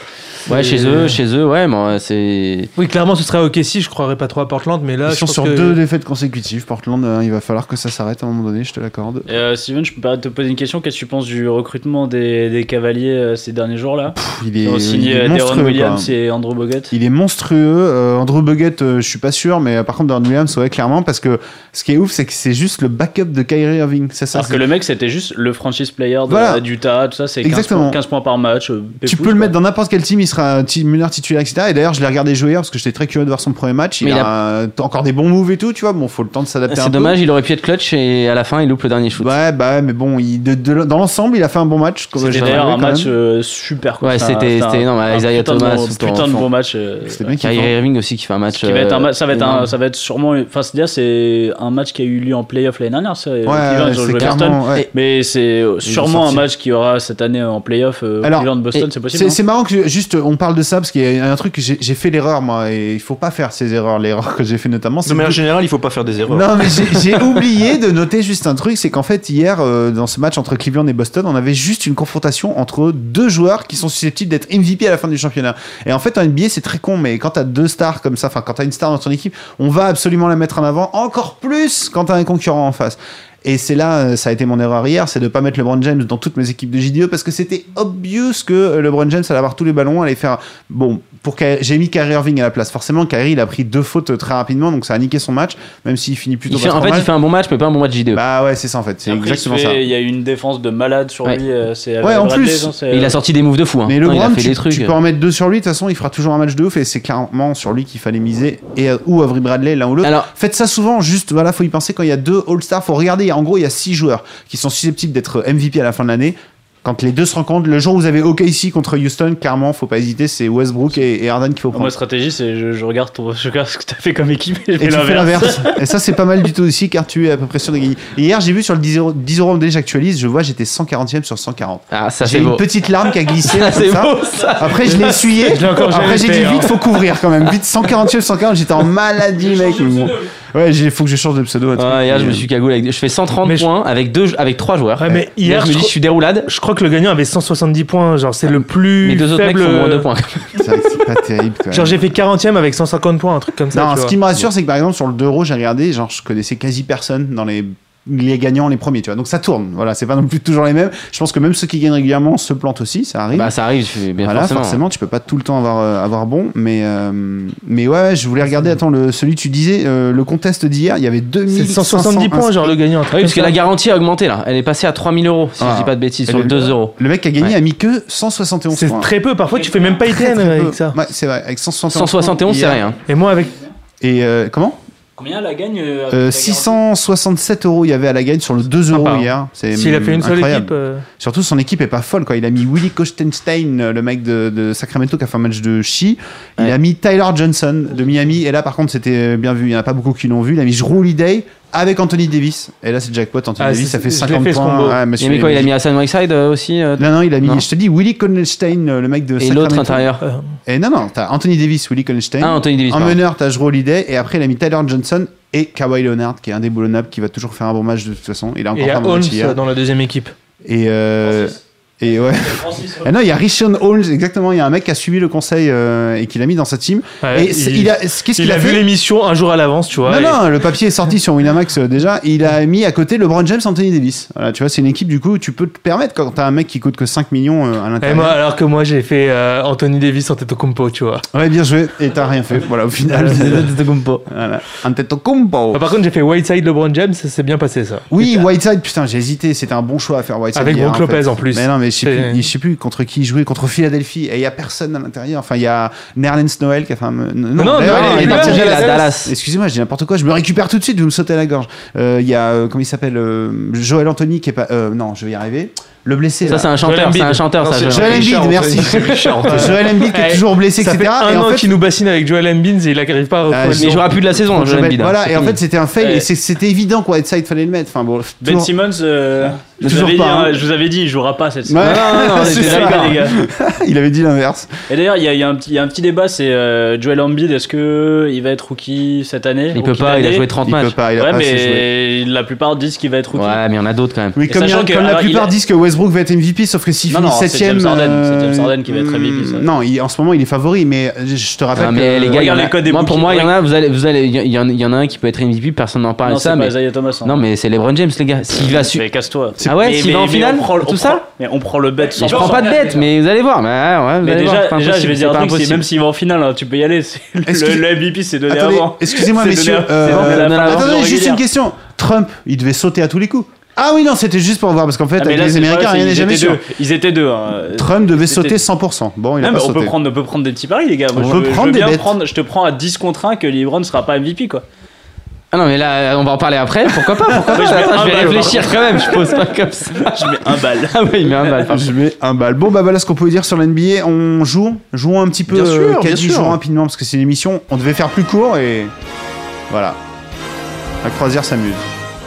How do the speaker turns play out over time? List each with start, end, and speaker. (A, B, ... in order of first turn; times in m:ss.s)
0:00.5-0:02.7 A
0:00.5-0:01.0 B
0:02.8-0:05.8 B
0:05.1-0:09.3 C
0:09.3-0:16.9 D
0:14.1-0:16.1 C
0:16.9-0:24.6 C
0:24.3-0:29.5 D
0:26.3-0:26.6 C
0:27.4-0:28.0 C
0:29.0-0:37.2 C
0:34.0-0:34.3 A
0:36.7-0:39.3 A
0:39.2-0:43.1 C
0:42.2-0:47.3 D
0:42.3-0:42.6 A
0:44.0-0:46.4 A
0:47.1-0:47.7 C
0:47.4-0:49.7 A
0:48.6-0:59.4 D
0:53.4-0:54.9 C
0:54.2-0:54.9 A
0:55.8-0:56.5 C
0:58.2-0:58.5 C
0:59.1-1:05.4 C
1:05.1-1:07.0 E
1:06.3-1:37.1 C
1:36.5-1:38.2 A
1:38.1-1:39.8 C
1:39.0-1:43.2 D
1:42.0-1:42.7 C
1:42.9-1:44.9 A
1:43.8-2:02.0 C
1:50.0-1:50.3 A
2:01.7-2:05.8 D
2:04.8-2:22.5 C
2:11.9-2:12.6 A
2:13.3-2:15.4 A
2:14.4-2:14.6 D
2:15.4-2:16.7 B
2:19.4-2:20.3 D
2:21.8-2:26.5 A
2:23.4-2:23.7 B
2:25.0-2:30.1 B
2:29.0-2:30.6 A
2:30.6-2:32.0 C
2:31.7-2:34.2 B
2:33.7-2:43.5 C
2:43.3-2:44.8 A
2:44.2-2:52.8 C
2:51.5-2:53.6 B
2:53.1-2:57.5 A
2:55.6-2:59.1 C
2:58.7-3:01.0 B
2:59.5-3:00.0 D
3:00.0-3:02.8 C
3:01.9-3:03.0 A
3:03.1-3:03.6 B
3:04.0-3:04.8 C
3:05.2-3:06.8 D
3:06.1-3:25.7 C
3:08.9-3:11.1 B
3:23.6-3:25.0 B
3:25.2-3:27.6 A
3:27.0-3:30.1 C
3:29.4-3:30.2 A
3:30.6-3:39.6 C
3:32.4-3:33.2 A
3:38.7-3:40.3 B
3:40.6-3:48.8 C
3:41.2-3:41.6 D
3:42.4-3:43.1 D
3:47.2-3:50.4 B
3:50.0-3:58.4 C
3:58.0-4:01.3 B
4:01.3-4:03.7 C
4:03.2-4:04.2 A
4:04.3-4:05.8 C
4:05.7-4:08.1 B
4:08.1-4:26.7 C
4:10.6-4:12.4 B
4:17.6-4:19.1 B
4:17.8-4:19.3 A
4:26.5-4:28.3 A
4:26.8-4:27.4 B
4:27.6-4:29.8 E
4:27.8-4:31.7 C
4:29.5-4:34.0 B
4:33.5-4:38.7 C
4:33.6-4:35.6 A
4:36.0-4:36.3 D
4:38.4-4:43.4 D
4:39.8-4:40.6 C
4:41.7-4:44.7 C
4:41.8-4:43.3 A
4:44.9-4:50.5 D
4:49.7-4:51.0 A
4:50.6-4:51.9 C
4:51.2-4:53.6 D
4:53.3-4:54.4 A
4:54.4-5:02.6 C
4:54.4-4:55.5 D
4:57.1-4:59.6 D
5:01.8-5:09.0 A
5:02.3-5:03.5 D
5:06.2-5:07.4 D
5:08.6-5:13.1 D
5:09.6-5:11.2 A
5:12.2-5:15.9 A
5:14.2-5:21.4 D
5:17.4-5:26.6 C
5:20.0-5:20.9 A
5:25.2-5:28.6 D
5:27.8-5:30.0 C
5:29.4-5:34.6 D
5:31.1-5:32.2 C
5:35.5-5:41.9 A
5:37.4-5:37.7 C
5:37.5-5:41.7 D
5:38.0-5:38.5 E
5:41.7-5:48.9 C
5:45.5-5:46.6 E
5:49.7-5:50.0 C
5:51.0-5:51.9 C